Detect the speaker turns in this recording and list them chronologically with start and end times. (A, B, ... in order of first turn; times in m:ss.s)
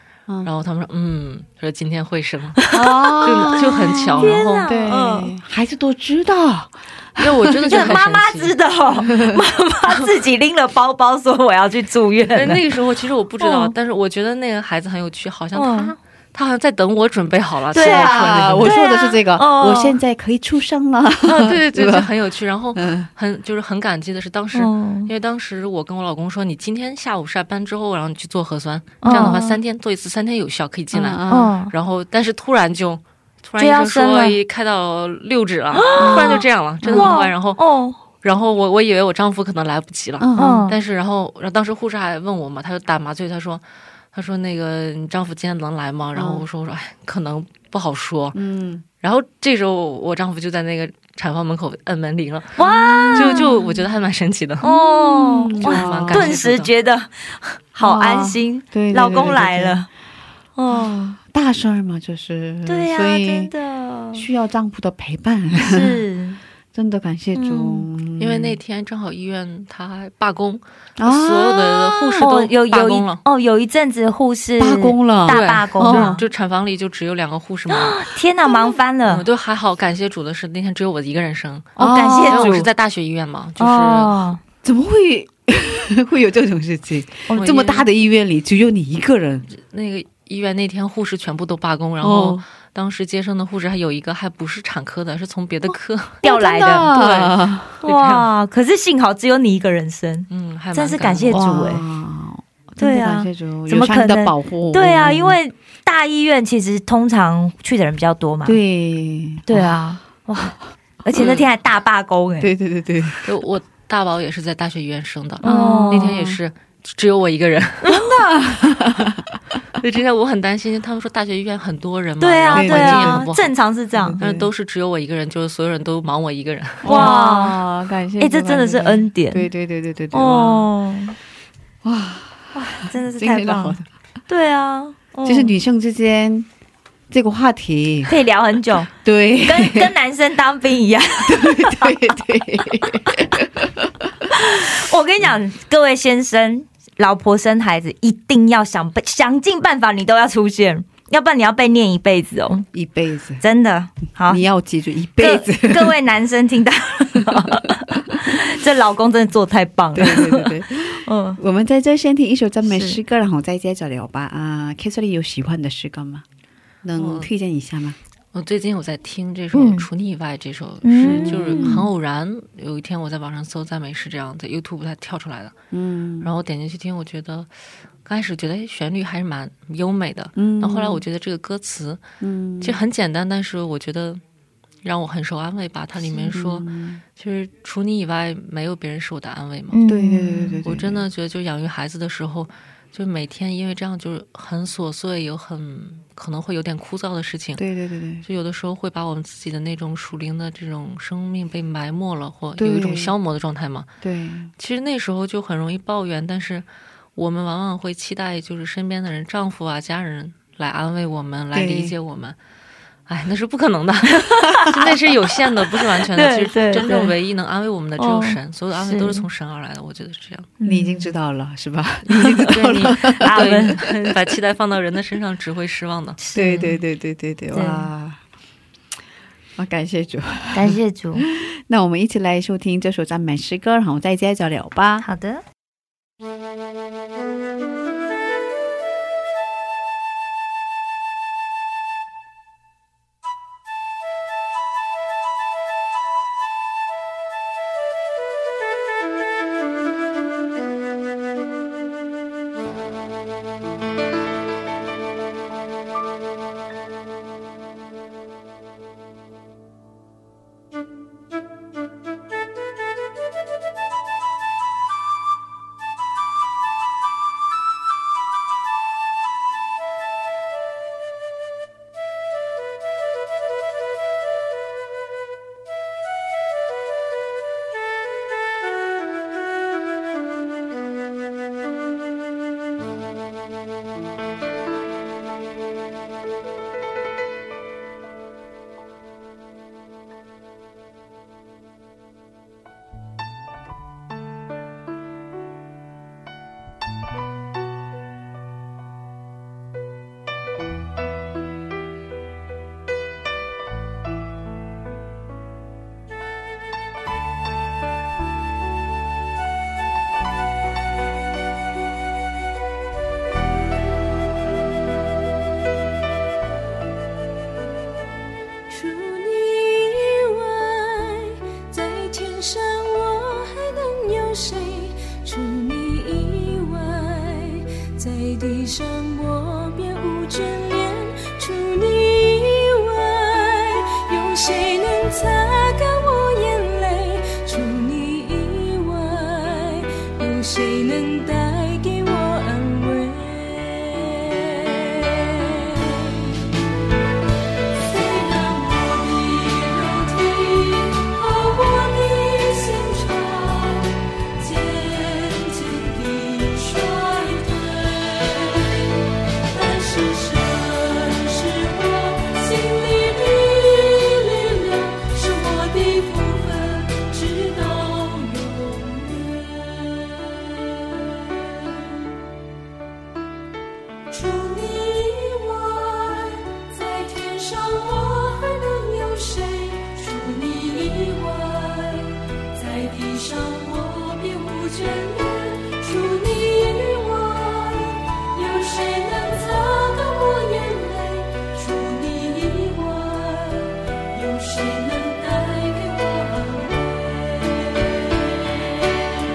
0:00.4-0:04.7 A
0:02.6-0:05.3 B
0:02.7-0:08.0 C
0:07.2-0:08.5 A
0:07.6-0:12.6 B
0:09.0-0:09.4 C
0:12.3-0:18.7 A
0:13.4-0:13.7 B
0:15.5-0:15.9 B
0:17.7-0:20.0 B
0:17.7-0:22.1 C
0:21.2-0:37.6 A
0:22.7-0:23.1 C
0:24.5-0:25.1 B
0:29.0-0:29.6 B
0:30.9-0:31.5 C
0:31.3-0:31.7 B
0:33.6-0:34.4 B
0:35.7-0:38.0 B
0:36.0-0:37.2 C
0:38.2-0:48.4 A
0:40.2-0:40.7 C
0:40.4-0:40.8 B
0:46.1-0:46.4 C
0:48.3-0:48.8 C
0:49.0-0:52.6 A
0:52.6-0:53.5 B
0:52.9-0:53.5 C
0:53.1-0:54.7 A
0:54.6-0:59.9 B
0:55.1-0:56.4 C
0:55.5-0:56.7 A
0:57.8-0:59.8 C
1:00.6-1:01.2 B
1:00.7-1:03.5 C
1:02.6-1:04.3 B
1:04.1-1:06.0 C
1:05.6-1:06.4 B
1:06.7-1:08.6 C
1:07.3-1:07.9 B
1:08.2-1:13.2 A
1:11.0-1:12.2 C
1:12.2-1:16.2 B
1:14.6-1:16.2 C
1:15.3-1:24.2 A
1:17.7-1:19.2 B
1:21.8-1:22.7 B
1:21.8-1:22.6 C
1:23.6-1:24.4 B
1:24.6-1:29.5 C
1:27.3-1:27.7 B
1:27.4-1:27.8 A
1:29.5-1:36.2 A
1:32.0-1:32.4 C
1:36.2-1:36.9 B
1:36.2-1:37.8 C
1:36.9-1:38.3 A
1:37.8-1:41.8 B
1:40.3-1:41.4 A
1:41.3-1:45.4 C
1:42.8-1:48.6 B
1:48.4-1:49.8 C
1:49.5-1:52.5 B
1:51.1-1:51.5 A
1:52.4-1:53.3 C
1:53.2-1:58.0 A
1:55.4-1:56.1 B
1:55.4-1:56.4 C
1:57.8-1:58.3 B
1:58.0-1:59.4 C
1:59.8-2:03.5 A
2:02.2-2:04.2 B
2:02.5-2:03.3 C
2:03.9-2:04.5 C
2:04.2-2:07.2 A
2:06.8-2:10.7 C
2:06.8-2:07.6 B
2:08.2-2:09.5 B
2:10.1-2:11.2 B
2:11.8-2:13.8 C
2:12.5-2:15.6 B
2:15.2-2:16.5 C
2:17.1-2:18.1 C
2:18.1-2:18.9 B
2:18.9-2:19.9 C
2:19.4-2:22.0 B
2:21.2-2:24.4 C
2:24.3-2:32.7 B
2:32.7-2:33.4 C
2:33.4-2:34.4 B
2:34.2-2:36.0 C
2:35.2-2:41.4 B
2:37.2-2:37.6 C
2:39.9-2:46.2 C
2:42.6-2:43.0 B
2:46.8-2:48.0 C
2:47.0-2:47.3 A
2:48.3-2:55.5 A
2:49.5-2:49.9 B
2:50.8-2:51.8 B
2:51.0-2:51.9 C
2:55.7-2:56.3 C
2:56.2-2:57.5 A
2:58.0-3:02.0 A
3:00.4-3:01.0 C
3:02.2-3:02.8 C
3:02.6-3:04.2 A
3:04.8-3:09.8 A
3:06.1-3:07.0 C
3:09.7-3:10.6 B
3:09.8-3:11.0 C
3:10.6-3:17.6 A
3:17.6-3:18.2 C
3:18.2-3:23.9 A
3:22.6-3:23.1 C
3:24.0-3:24.5 C
3:24.6-3:26.6 A
3:27.2-3:32.4 A
3:31.5-3:31.9 C
3:33.1-3:40.5 A
3:34.2-3:34.8 B
3:36.1-3:37.1 B
3:38.0-3:39.2 B
3:40.6-3:41.1 B
3:40.6-3:43.6 C
3:42.1-3:42.4 B
3:42.5-3:46.2 A
3:43.2-3:43.8 B
3:46.2-3:46.8 B
3:46.3-3:48.2 C
3:47.5-3:47.9 B
3:49.6-3:55.0 C
3:50.5-3:51.2 B
3:55.0-3:55.4 B
5:18.7-5:46.4 D
5:47.8-5:58.9 D
5:59.5-6:10.3 D
6:14.1-6:38.3 D